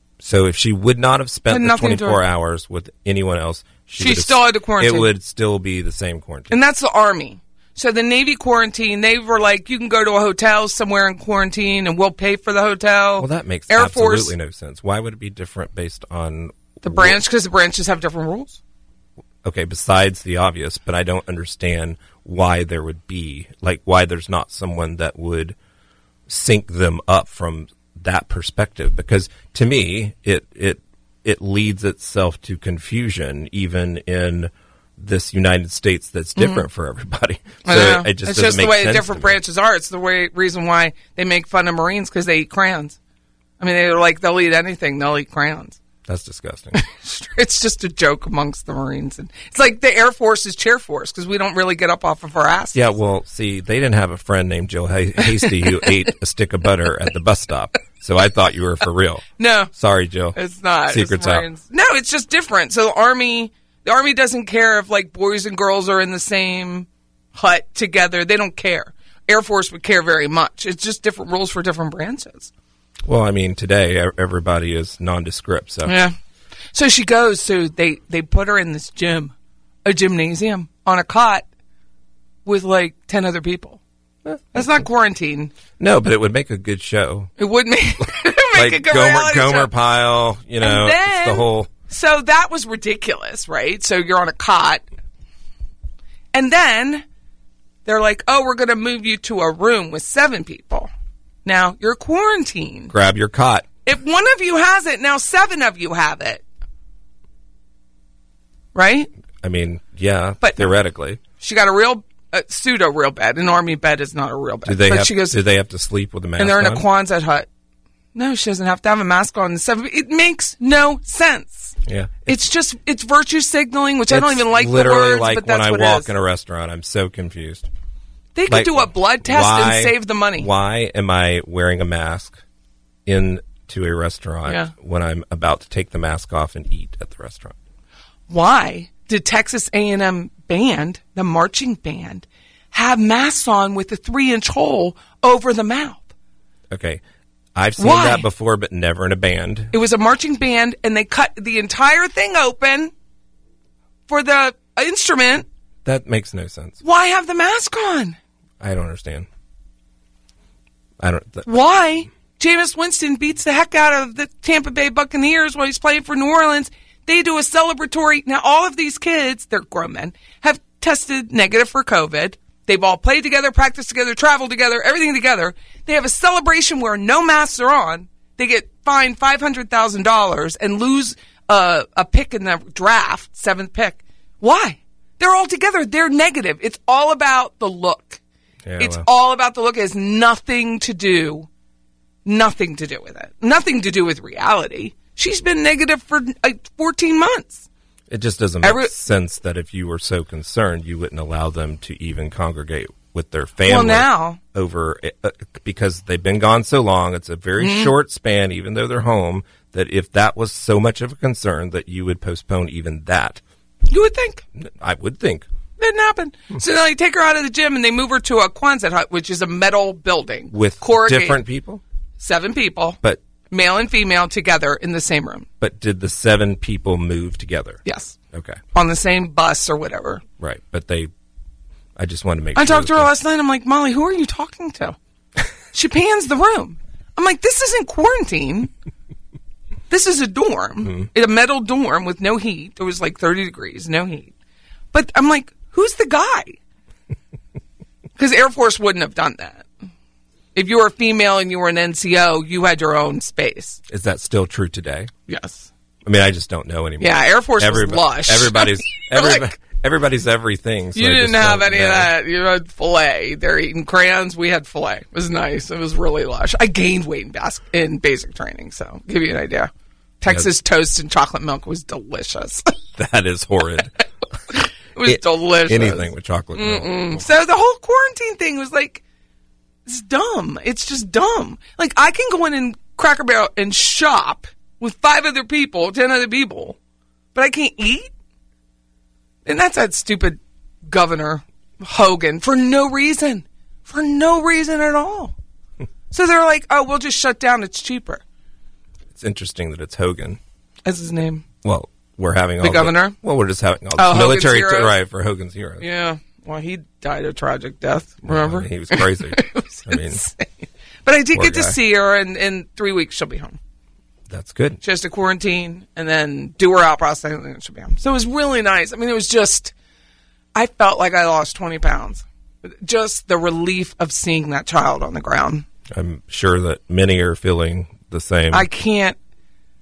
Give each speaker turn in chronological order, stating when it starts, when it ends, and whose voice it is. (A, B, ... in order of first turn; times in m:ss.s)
0:00.2-0:06.6 A
0:01.5-0:02.2 B
0:04.0-0:05.1 B
0:06.5-0:14.3 B
0:13.2-0:17.2 A
0:16.8-0:18.6 B
0:19.4-0:25.6 A
0:26.3-0:39.4 A
0:36.4-0:36.6 B
0:37.6-0:43.0 B
0:43.6-0:45.8 B
0:46.0-0:46.8 A
0:46.7-0:52.8 B
0:52.7-1:01.5 A
0:59.4-0:59.7 B
1:00.3-1:12.5 B
1:13.0-1:16.0 A
1:15.8-1:16.1 B
1:16.7-1:19.3 B
1:19.8-1:21.4 B
1:22.4-1:23.8 B
1:24.2-1:24.8 A
1:24.5-1:25.5 B
1:25.8-1:27.3 A
1:27.4-1:29.7 B
1:28.5-1:31.7 A
1:30.6-1:34.8 B
1:36.3-1:37.0 B
1:37.8-1:40.9 B
1:41.4-1:42.9 B
1:42.9-1:43.7 A
1:43.8-1:46.4 B
1:48.7-1:49.1 B
1:49.4-1:51.2 A
1:50.4-1:50.7 B
1:51.4-1:55.4 B
1:54.6-1:56.9 A
1:56.4-1:57.5 B
1:58.1-2:01.8 B
2:01.8-2:02.4 A
2:02.3-2:06.1 B
2:04.1-2:07.7 A
2:08.3-2:10.5 B
2:08.5-2:12.4 A
2:13.0-2:17.5 A
2:14.4-2:14.7 B
2:18.3-2:26.1 B
2:26.7-2:27.0 A
2:27.5-2:29.7 A
2:27.8-2:28.3 B
2:29.7-2:32.9 B
2:34.1-2:35.4 B
2:35.8-2:36.8 A
2:36.8-2:38.2 B
2:38.6-2:39.3 A
2:41.0-2:41.5 A
2:41.4-3:08.2 B
3:08.6-3:09.1 A
3:08.8-3:11.5 B
3:12.2-3:17.6 B
3:18.1-3:33.4 A
3:18.6-3:18.9 B
3:23.6-3:24.4 B
3:27.6-3:27.9 B
3:33.9-3:34.4 B
3:34.6-3:35.5 A
3:35.8-3:41.4 B
3:40.5-3:41.8 A
3:42.2-3:43.0 B
3:43.5-3:45.5 B
3:45.6-3:47.8 A
3:47.8-3:48.2 B
3:48.3-3:48.6 A
3:48.7-3:50.2 B
3:50.4-3:51.1 A
3:52.0-3:53.1 A
3:52.5-3:55.0 B
3:55.7-3:58.7 B
3:59.9-4:04.3 B
4:04.9-4:06.6 B
4:08.2-4:09.7 B
4:10.5-4:13.8 B
4:13.9-4:15.1 A
4:15.3-4:15.7 B
4:16.0-4:22.1 A
4:17.0-4:19.5 B
4:20.9-4:29.7 B
4:30.2-4:32.7 B
4:33.0-4:33.9 A
4:34.5-4:39.0 B
4:35.0-4:37.2 A
4:39.8-4:46.8 B
4:47.3-4:48.1 B
4:49.4-4:55.3 B
4:56.1-4:58.2 B
4:59.1-5:00.4 A
5:00.8-5:01.4 B
5:01.6-5:05.8 A
5:02.6-5:03.2 B
5:04.0-5:05.0 B
5:05.8-5:13.6 B
5:08.2-5:10.2 A
5:11.3-5:11.8 A
5:14.3-5:14.8 A
5:14.8-5:19.7 B
5:20.5-5:25.6 B
5:25.9-5:28.7 A
5:28.5-5:29.2 B